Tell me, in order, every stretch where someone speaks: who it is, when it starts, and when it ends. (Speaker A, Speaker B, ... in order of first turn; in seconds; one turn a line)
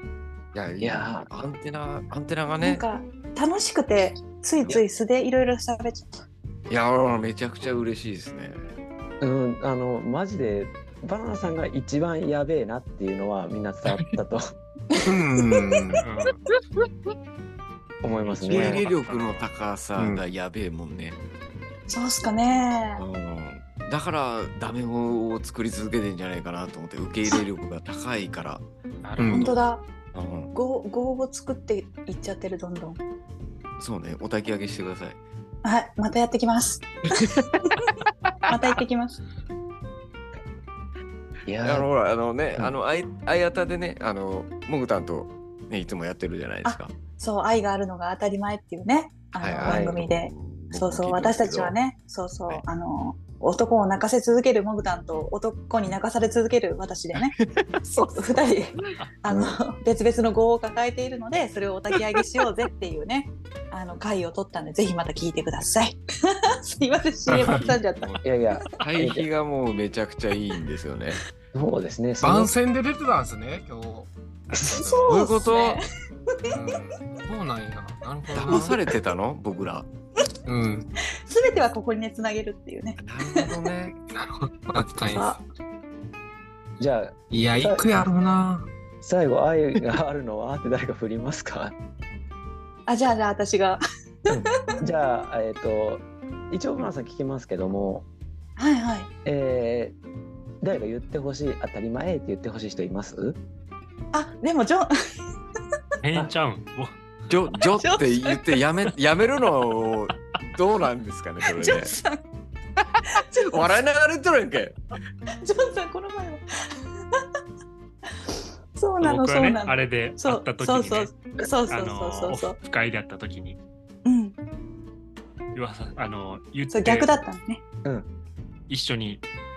Speaker A: 0.5-2.8
Speaker B: 0.8-1.3
Speaker C: 2.6-6.2
Speaker A: 6.7-8.7
Speaker B: 9.2-14.4
Speaker C: 14.9-15.7
Speaker D: 15.1-16.0
Speaker E: 16.0-16.4
Speaker B: 18.0-18.8
Speaker E: 18.1-19.5
Speaker A: 18.3-21.2
Speaker D: 20.0-20.2
Speaker C: 21.9-23.0
Speaker A: 23.0-28.6
Speaker E: 29.0-29.4
Speaker D: 29.2-29.5
Speaker C: 29.3-29.9
Speaker A: 29.3-29.6
Speaker A: 30.1-30.5
Speaker C: 30.5-33.0
Speaker A: 33.8-35.2
Speaker C: 35.6-37.9
Speaker A: 37.2-37.5
Speaker A: 38.2-38.6
Speaker C: 38.5-39.2
Speaker B: 41.5-41.9
Speaker A: 41.6-47.0
Speaker C: 46.6-57.3
Speaker A: 49.4-51.7
Speaker B: 49.6-50.0
Speaker A: 57.2-58.4
Speaker C: 58.1-68.7
Speaker B: 59.3-59.6
Speaker D: 67.3-67.7
Speaker A: 67.5-67.7
Speaker B: 68.2-69.2
Speaker A: 68.8-71.2
Speaker B: 71.5-72.5
Speaker D: 72.2-75.2
Speaker C: 74.6-76.6
Speaker A: 75.0-75.8
Speaker D: 76.5-78.8
Speaker A: 78.3-79.9
Speaker D: 80.5-80.9
Speaker C: 81.2-83.6
Speaker A: 83.0-84.0
Speaker D: 84.1-85.3
Speaker C: 85.1-85.4
Speaker B: 86.8-87.8
Speaker D: 87.3-88.7
Speaker B: 89.0-91.7
Speaker C: 92.9-93.8
Speaker B: 94.3-98.0
Speaker C: 94.3-94.8
Speaker C: 98.6-99.1
Speaker B: 99.2-100.0
Speaker B: 100.6-103.4
Speaker C: 104.1-104.9
Speaker E: 106.0-106.9
Speaker A: 107.3-111.9
Speaker C: 107.7-108.4
Speaker C: 111.4-112.2
Speaker C: 113.2-113.8
Speaker A: 113.5-114.8
Speaker C: 115.4-116.4
Speaker C: 118.1-122.5
Speaker E: 119.0-123.6
Speaker C: 124.0-124.3
Speaker E: 125.5-127.1
Speaker C: 126.7-127.6
Speaker E: 128.7-129.2